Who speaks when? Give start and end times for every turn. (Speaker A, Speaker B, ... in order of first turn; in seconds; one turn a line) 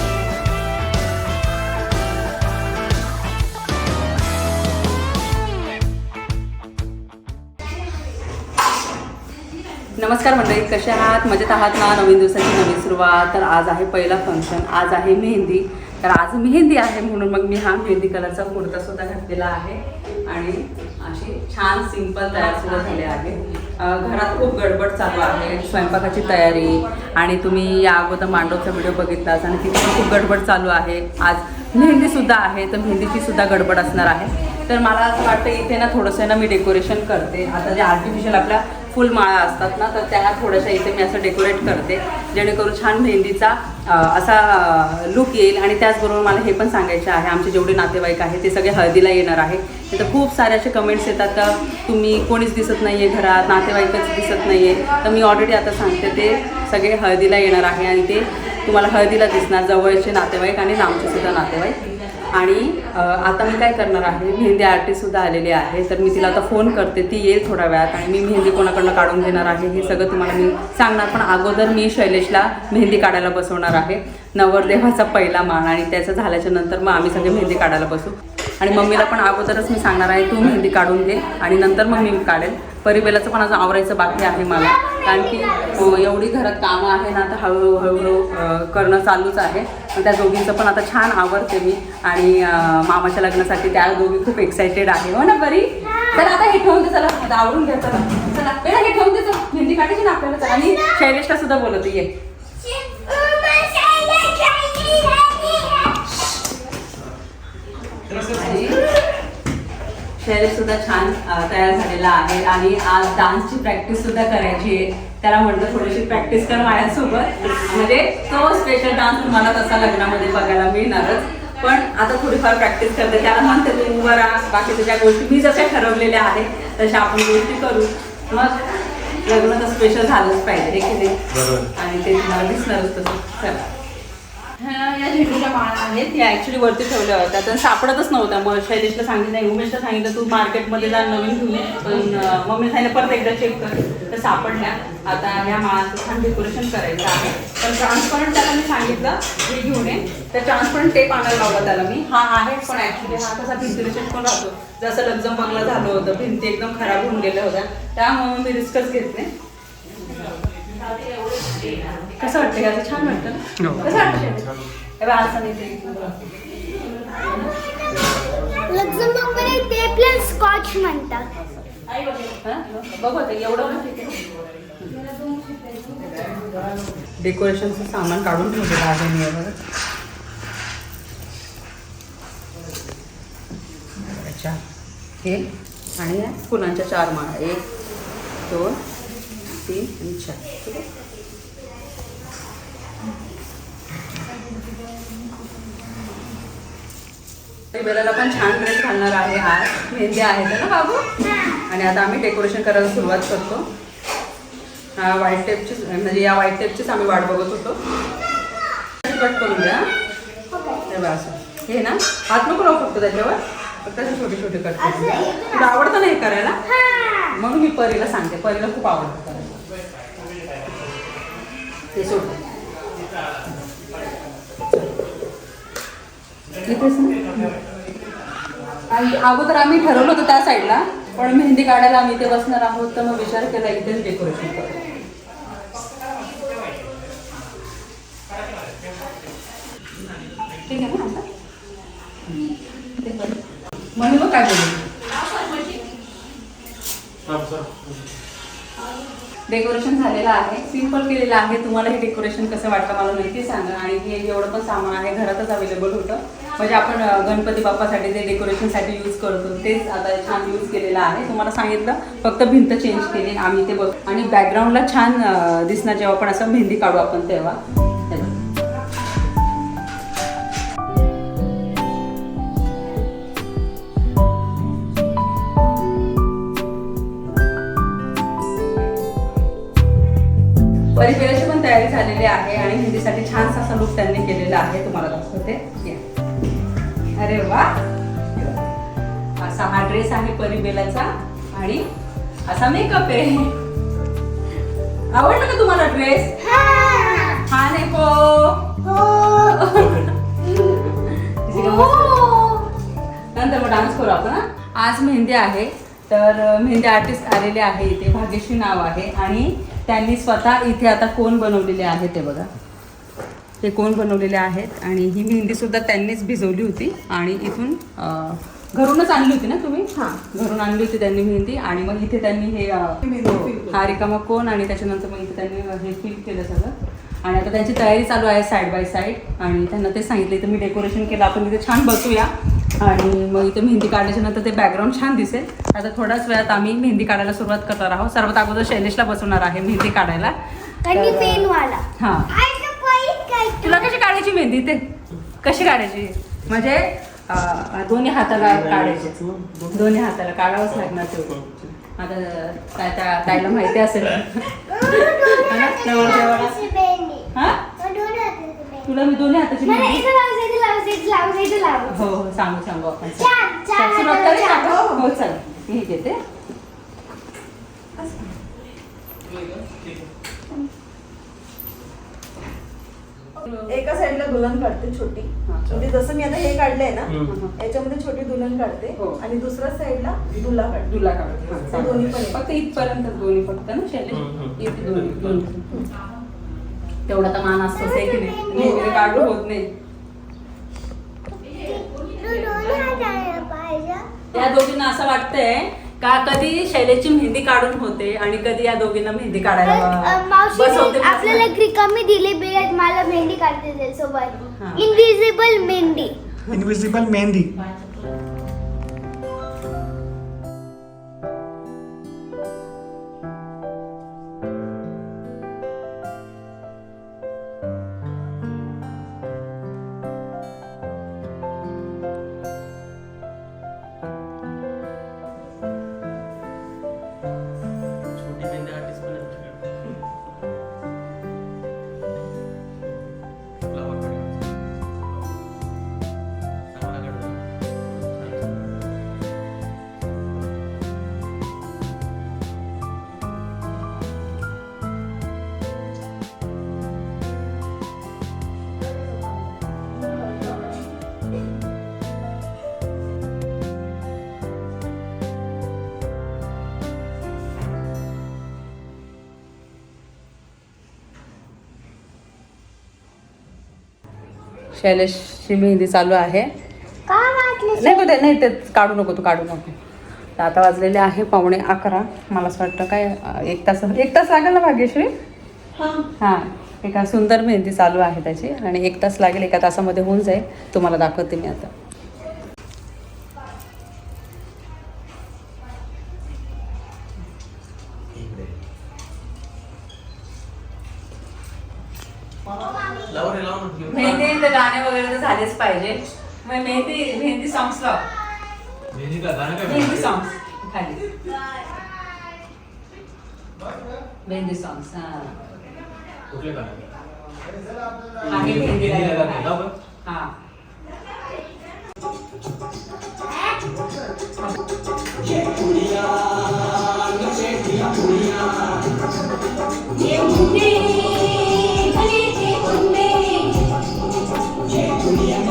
Speaker A: 9.9-61.8
Speaker A: 62.3-102.1
Speaker B: 84.8-85.7
Speaker B: 95.8-96.3
Speaker B: 100.4-101.0
Speaker B: 102.6-106.0
Speaker A: 108.3-108.8
Speaker A: 110.2-131.2
Speaker C: 131.3-131.7
Speaker A: 131.7-133.7
Speaker A: 134.6-159.3
Speaker A: 162.0-166.2
Speaker B: 168.7-171.3
Speaker A: 171.3-171.8
Speaker A: 172.4-174.2
Speaker A: 177.2-179.6
Speaker A: 184.0-184.6
Speaker A: 185.2-187.6
Speaker A: 188.4-188.8
Speaker A: 189.4-190.8
Speaker A: 197.7-201.0
Speaker A: 201.7-203.7
Speaker A: 205.0-207.8
Speaker A: 209.0-209.9
Speaker B: 210.5-210.8
Speaker A: 210.9-216.6
Speaker B: 214.8-215.9
Speaker B: 216.7-217.4
Speaker A: 217.3-219.5
Speaker A: 221.9-222.4
Speaker A: 226.7-227.5
Speaker A: 228.9-234.8
Speaker A: 240.6-241.2
Speaker A: 242.2-243.4
Speaker A: 243.9-244.8
Speaker C: 247.2-248.0
Speaker A: 249.5-268.4
Speaker A: 280.9-286.0
Speaker A: 287.1-287.8
Speaker A: 288.4-288.7
Speaker A: 289.4-291.9
Speaker A: 292.4-293.6
Speaker A: 295.1-296.4
Speaker B: 296.4-297.4
Speaker A: 297.4-298.8
Speaker B: 298.8-299.9
Speaker A: 299.3-302.3
Speaker B: 301.5-302.7
Speaker A: 303.3-312.5
Speaker A: 313.6-342.3
Speaker D: 323.0-323.9
Speaker B: 340.8-344.0
Speaker A: 343.6-349.2
Speaker E: 348.8-349.7
Speaker A: 349.7-356.6
Speaker B: 354.7-358.9
Speaker A: 357.3-357.6
Speaker A: 358.8-360.0
Speaker B: 359.6-362.1
Speaker A: 361.9-366.2
Speaker B: 363.0-364.9
Speaker D: 364.7-365.0
Speaker D: 368.0-368.3
Speaker C: 369.2-370.0
Speaker D: 373.6-380.9
Speaker A: 375.5-375.7
Speaker A: 377.2-377.5
Speaker A: 378.9-379.2
Speaker A: 380.9-385.9
Speaker D: 381.6-382.4
Speaker C: 384.3-385.3
Speaker A: 387.1-389.7
Speaker B: 387.8-389.3
Speaker D: 388.5-389.1
Speaker B: 391.3-394.2
Speaker A: 394.3-401.4
Speaker B: 399.6-406.1
Speaker A: 404.6-404.9
Speaker E: 406.5-407.5
Speaker E: 428.2-429.7
Speaker C: 428.2-429.2
Speaker C: 433.7-434.3
Speaker E: 433.7-435.3
Speaker E: 436.8-437.3
Speaker C: 436.8-437.2
Speaker E: 437.9-438.8
Speaker A: 464.7-466.5
Speaker B: 467.1-468.1
Speaker A: 467.8-469.8
Speaker A: 470.4-475.1
Speaker A: 476.2-481.7
Speaker C: 488.1-488.5
Speaker B: 492.6-493.1
Speaker C: 493.1-494.3
Speaker A: 493.9-498.0
Speaker C: 498.9-500.1
Speaker A: 499.6-501.0
Speaker A: 504.2-505.4
Speaker C: 506.3-506.9
Speaker A: 508.2-510.3
Speaker C: 508.3-509.7
Speaker B: 520.0-523.6